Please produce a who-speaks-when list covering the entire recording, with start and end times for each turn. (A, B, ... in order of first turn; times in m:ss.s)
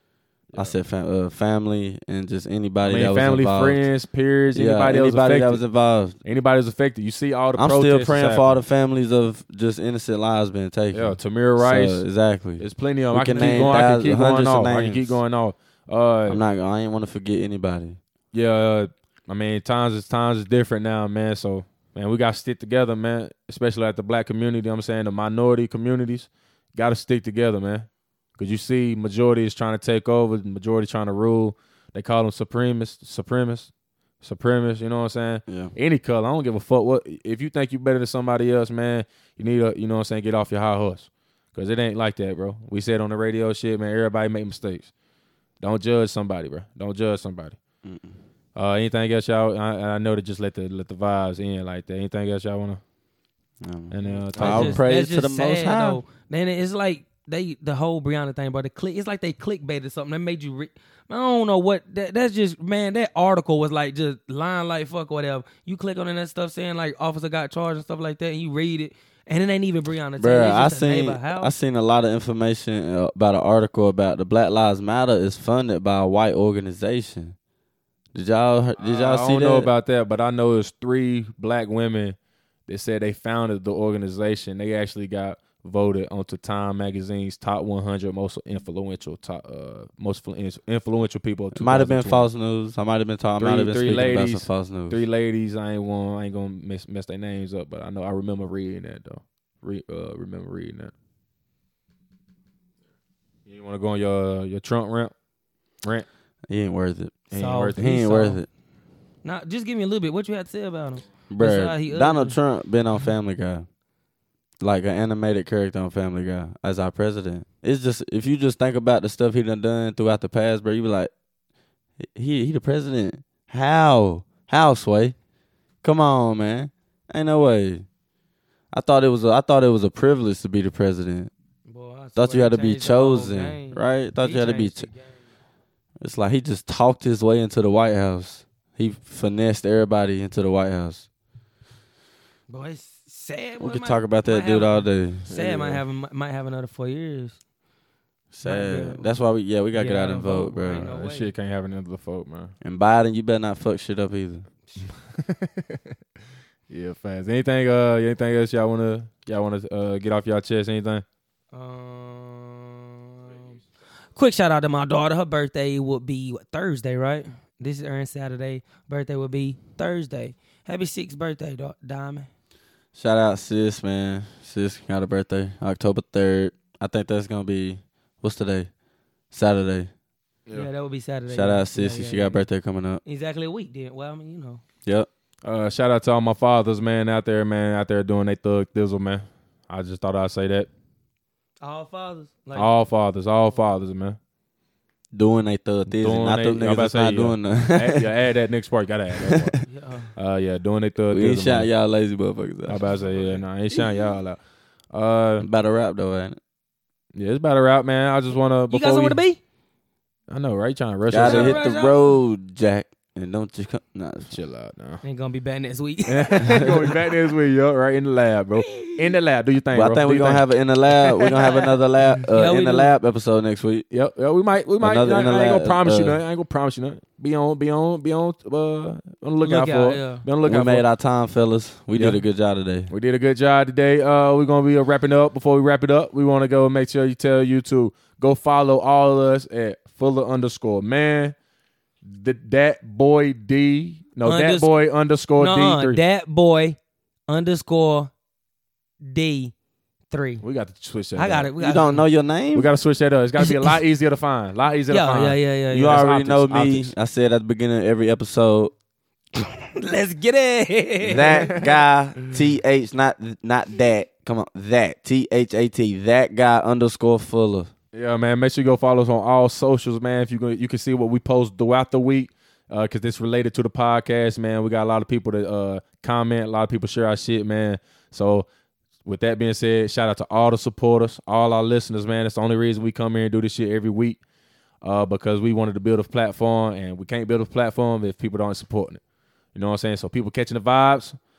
0:00.5-0:03.8 A
0:02.8-0:05.6 B
0:04.5-0:06.2 A
0:06.2-0:08.6 B
0:07.5-0:15.2 A
0:10.9-0:12.0 B
0:12.6-0:16.4 B
0:16.3-0:18.0 A
0:18.3-0:33.7 B
0:34.2-0:44.9 B
0:35.5-0:35.7 A
0:45.6-0:47.6 B
0:47.8-0:48.2 A
0:48.5-0:52.8 B
0:53.6-0:56.0 A
0:53.9-0:54.8 B
0:54.3-1:11.5 C
1:10.2-1:17.4 A
1:18.1-1:19.7 A
1:18.8-1:32.3 B
1:31.5-1:35.0 A
1:33.4-1:40.9 B
1:43.4-1:45.1 B
1:46.5-1:48.5 A
1:47.3-1:48.0 B
1:47.3-1:48.4 C
1:49.2-1:52.4 C
1:51.3-1:53.6 A
1:54.6-2:01.1 A
2:02.0-2:05.2 A
2:05.8-2:07.8 A
2:08.7-2:11.3 A
2:11.7-2:15.2 C
2:12.2-2:14.9 A
2:16.0-2:21.1 A
2:22.5-2:27.4 C
2:23.6-2:25.8 A
2:28.3-2:30.9 A
2:28.4-2:29.1 C
2:29.7-2:31.3 C
2:30.8-2:32.5 B
2:32.6-2:34.4 A
2:35.2-2:35.8 B
2:36.7-2:41.0 B
2:41.5-2:43.6 C
2:44.2-2:52.3 C
2:52.9-2:58.7 A
2:59.3-2:59.9 A
3:00.5-3:02.4 C
3:01.3-3:03.0 A
3:03.0-3:04.6 C
3:05.4-3:10.7 B
3:11.6-3:12.7 C
3:12.5-3:14.2 B
3:15.1-3:18.1 A
3:15.9-3:19.6 B
3:19.1-3:19.6 A
3:19.7-3:20.1 C
3:20.2-3:21.7 B
3:21.1-3:22.8 A
3:22.7-3:24.4 B
3:22.9-3:23.8 C
3:24.9-3:25.5 B
3:25.4-3:26.4 A
3:27.1-3:29.2 B
3:28.7-3:29.4 C
3:30.3-3:31.6 B
3:31.1-3:34.4 A
3:31.2-3:32.2 C
3:34.3-3:35.0 B
3:35.0-3:36.9 C
3:36.1-3:40.4 B
3:39.7-3:43.9 A
3:41.4-3:41.7 C
3:42.3-3:42.9 C
3:43.9-3:50.8 B
3:44.8-3:46.2 A
3:49.4-3:50.2 C
3:50.4-3:52.9 A
3:51.9-3:52.2 B
3:52.9-4:01.3 B
4:02.0-4:06.0 B
4:04.2-4:04.7 C
4:05.4-4:08.1 C
4:09.0-4:09.5 C
4:10.1-4:10.4 C
4:10.4-4:11.5 B
4:11.2-4:12.0 C
4:11.6-4:12.7 A
4:12.5-4:16.9 B
4:14.9-4:16.1 C
4:15.7-4:18.7 A
4:19.4-4:21.5 C
4:21.0-4:27.7 A
4:21.1-4:21.6 B
4:27.9-4:38.5 B
4:39.0-4:44.2 B
4:44.8-4:49.0 B
4:49.5-4:51.2 B